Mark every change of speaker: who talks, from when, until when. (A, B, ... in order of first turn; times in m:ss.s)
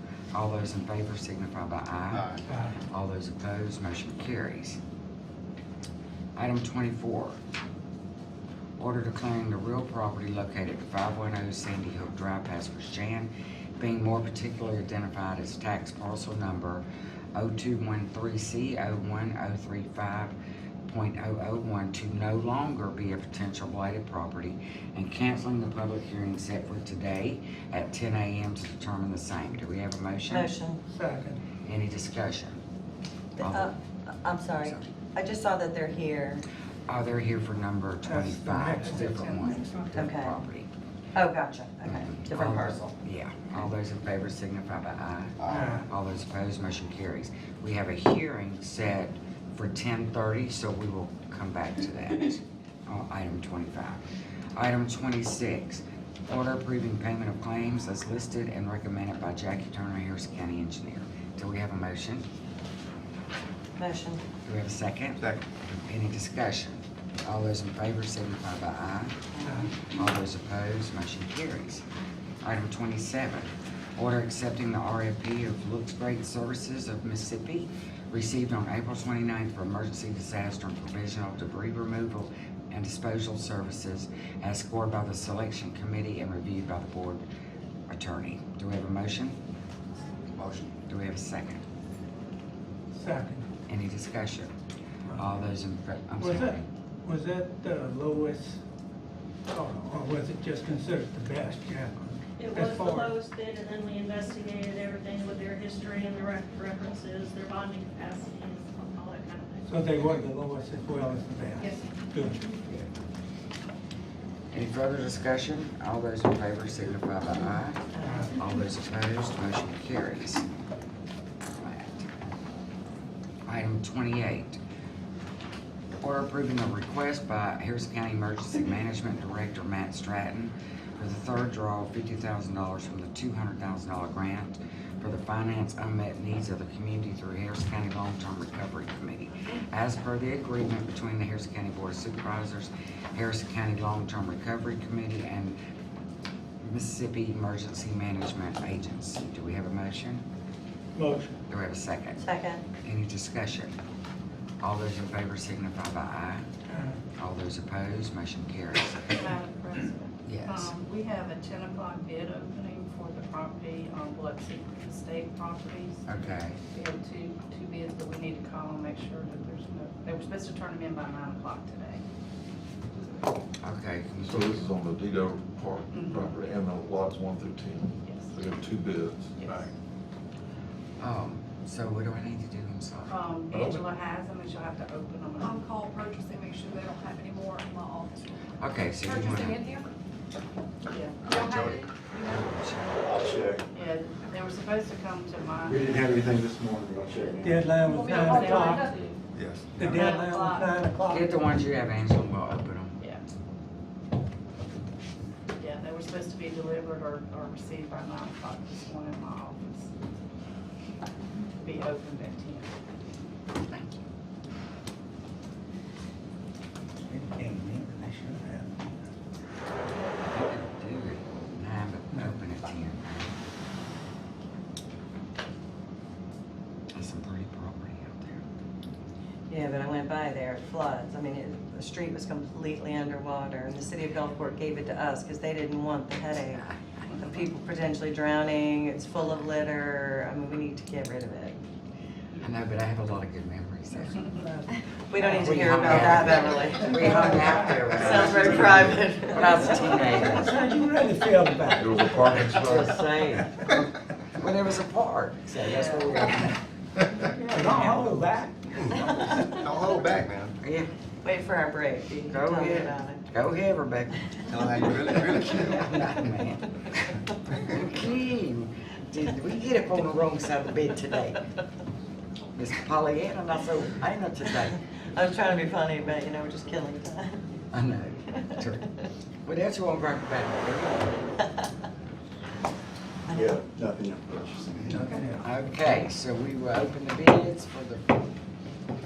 0:00.3-0:02.4 A
0:02.9-0:04.8 A
0:06.4-0:07.4 A
0:08.8-0:16.8 A
0:17.3-0:20.3 A
0:20.8-0:30.5 A
0:30.3-0:30.8 B
0:31.0-0:31.3 C
0:31.0-0:31.4 D
0:31.6-0:32.6 A
0:33.4-0:36.4 B
0:33.4-0:33.7 A
0:34.6-0:34.9 A
0:36.9-0:40.7 A
0:38.2-0:39.0 C
0:38.3-0:39.6 D
0:39.9-0:40.4 B
0:41.1-0:42.9 B
0:41.8-0:54.0 A
0:45.5-0:45.8 C
0:45.5-0:45.8 D
0:54.5-1:02.2 A
1:03.8-1:04.2 B
1:04.4-1:05.2 A
1:05.9-1:09.3 A
1:09.3-1:09.7 B
1:09.8-1:11.8 A
1:12.4-1:27.2 A
1:27.9-1:29.4 A
1:30.9-1:31.6 A
1:33.0-1:33.3 C
1:33.1-1:33.4 D
1:33.7-1:34.5 A
1:35.1-1:36.6 A
1:37.0-1:38.5 C
1:37.3-1:38.6 D
1:39.6-1:39.8 D
1:39.6-1:41.8 C
1:40.5-1:42.1 D
1:42.4-1:49.6 E
1:42.5-1:43.2 C
1:49.7-1:52.4 C
1:49.7-1:50.6 D
1:54.5-2:00.4 A
2:01.6-2:02.1 A
2:03.5-2:04.6 A
2:06.0-2:25.6 A
2:26.6-2:30.2 A
2:31.5-2:32.2 A
2:32.2-2:32.6 B
2:32.8-2:33.7 A
2:34.6-2:36.4 A
2:37.2-2:39.3 A
2:39.2-2:46.0 D
2:40.2-2:40.7 A
2:46.1-2:46.6 A
2:46.7-2:52.0 D
2:53.6-2:54.6 A
2:54.2-2:59.5 F
2:55.9-2:56.2 D
2:59.4-2:59.7 D
3:01.0-3:03.2 A
3:03.1-3:05.6 D
3:03.5-3:03.9 F
3:05.4-3:09.9 G
3:08.6-3:09.6 A
3:10.9-3:11.2 D
3:11.2-3:12.4 G
3:11.5-3:11.7 C
3:12.2-3:13.0 A
3:13.0-3:13.6 H
3:13.8-3:15.8 D
3:15.6-3:17.7 H
3:17.4-3:18.8 C
3:17.7-3:19.2 G
3:18.0-3:19.1 D
3:19.8-3:21.2 C
3:19.8-3:20.7 D
3:21.1-3:22.9 A
3:25.6-3:29.9 D
3:31.6-3:32.7 D
3:33.7-3:34.0 A
3:37.1-3:38.9 C
3:38.5-3:39.0 D
3:40.2-3:43.3 A
3:46.9-3:48.4 A
3:49.5-3:56.6 B
3:56.5-3:56.8 A
3:57.2-4:01.6 B
4:02.4-4:04.3 A
4:05.1-4:10.3 B
4:05.3-4:10.6 A
4:08.1-4:09.0 F
4:10.4-4:11.8 C
4:11.7-4:13.1 F
4:12.2-4:16.6 A
4:15.6-4:16.2 B
4:17.4-4:18.1 A
4:17.5-4:18.5 C
4:17.8-4:18.1 D
4:19.3-4:19.6 B
4:19.6-4:20.5 D
4:20.6-4:20.9 A
4:21.2-4:23.2 B
4:22.3-4:24.3 A
4:24.9-4:31.5 A
4:32.5-4:34.8 A
4:35.1-4:37.4 B
4:37.7-4:38.9 A
4:39.4-4:41.2 A
4:43.3-4:43.5 B
4:43.3-4:45.1 H
4:45.1-4:45.4 D
4:45.4-4:48.1 A